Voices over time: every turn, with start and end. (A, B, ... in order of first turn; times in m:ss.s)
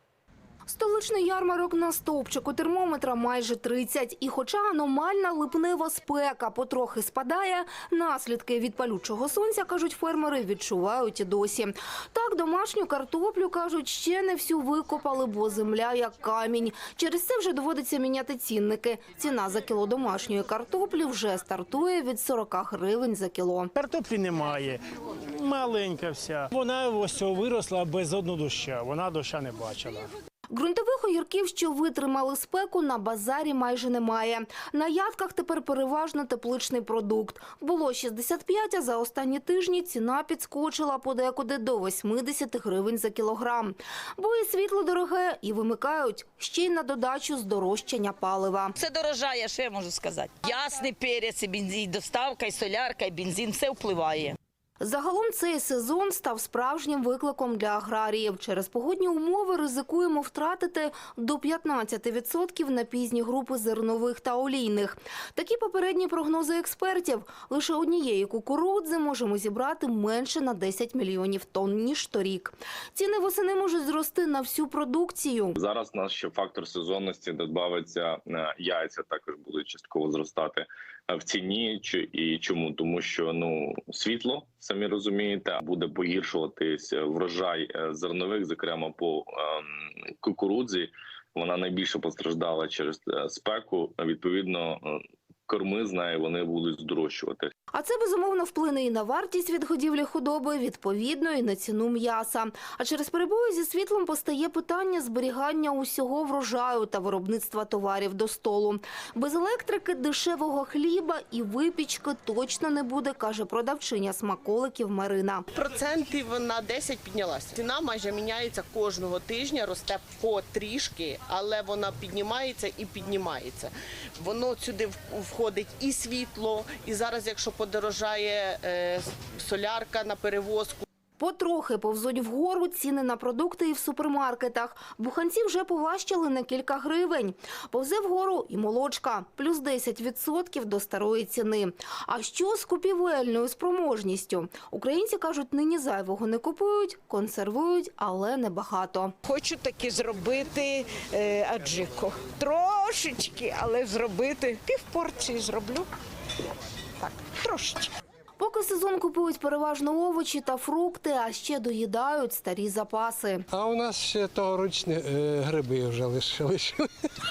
0:00.7-0:23.7 A
0:23.8-0:30.1 B
0:30.5-0:48.8 A
0:48.8-0:54.4 C
0:54.8-1:15.6 A
1:15.6-1:35.0 D
1:35.5-1:37.5 D
1:37.7-1:55.5 A
1:55.6-2:10.8 E
2:11.2-2:29.2 A
2:29.2-2:35.9 F
2:37.0-2:37.9 F
2:38.4-2:43.4 A
2:43.5-2:46.9 G